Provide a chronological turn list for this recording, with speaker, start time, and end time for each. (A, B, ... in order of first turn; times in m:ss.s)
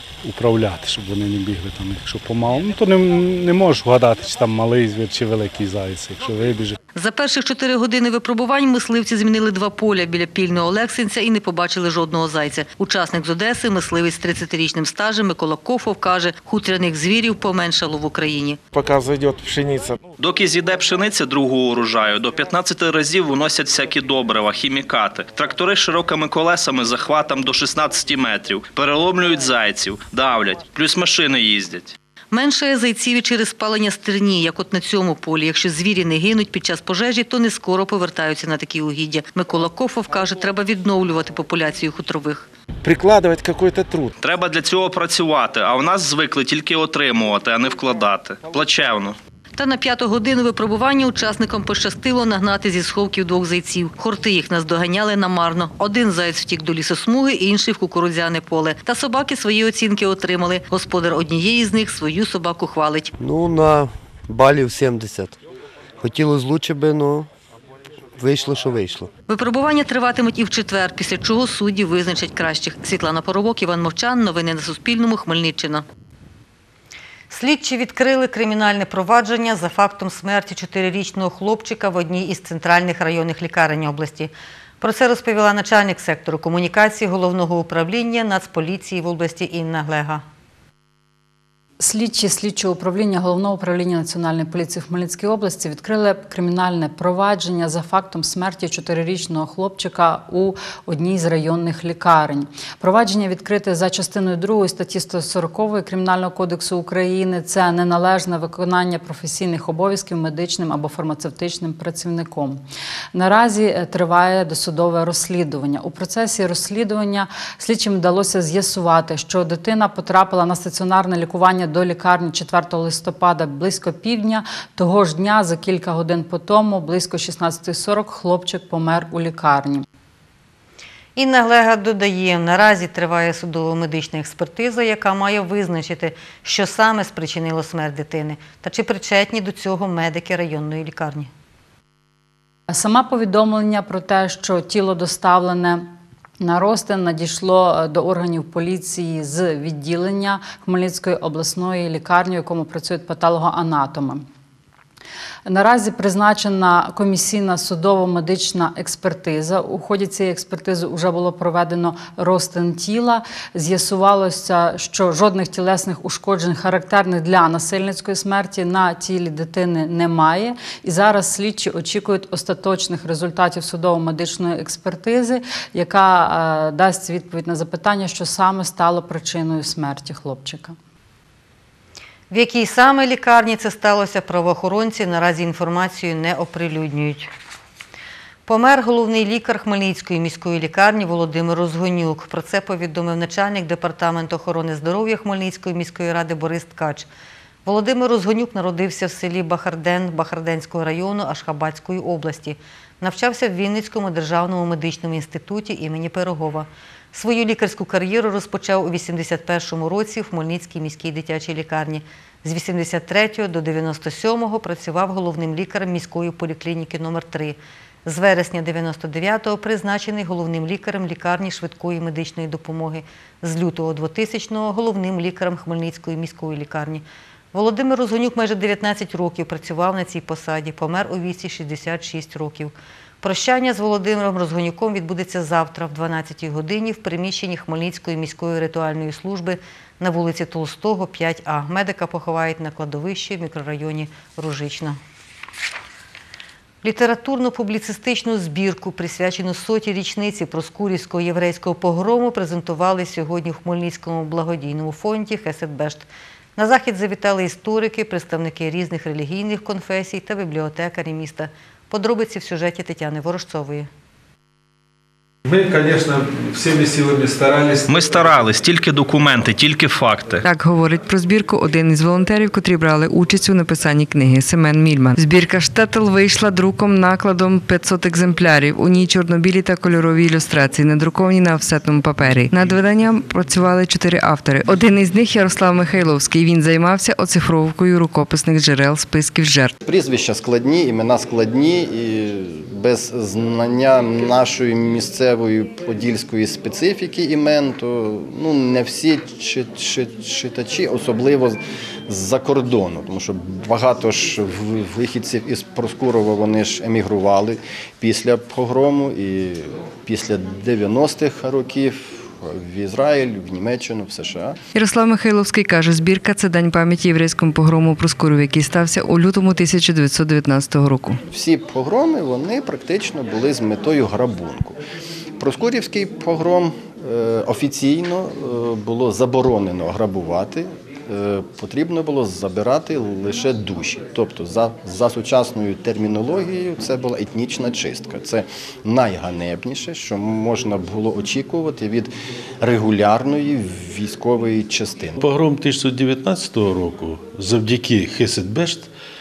0:00.2-0:06.8 A
0:07.0-0:18.6 B
0:18.8-0:20.0 C
0:20.2-0:31.9 D
0:32.3-0:42.5 B
0:42.8-0:44.1 C
0:44.2-0:49.1 D
0:49.6-1:03.1 B
1:03.2-1:05.3 E
1:06.0-1:07.2 E
1:08.2-1:09.1 E
1:09.3-1:15.8 B
1:17.3-1:30.2 B
1:31.8-2:09.8 F
2:11.2-2:21.3 B
2:22.7-2:25.8 F
2:26.4-2:34.2 F
2:35.4-3:00.8 F
3:02.3-3:07.3 B
3:08.5-3:17.1 B
3:17.6-4:05.0 B
4:06.8-4:23.9 B
4:25.5-4:27.7 G
4:27.9-4:30.4 D
4:30.4-4:49.7 H
4:49.8-5:14.6 I
5:14.7-5:21.2 H
5:21.3-5:24.8 I
5:25.4-5:42.1 I
5:42.6-5:45.2 I
5:45.2-5:48.9 J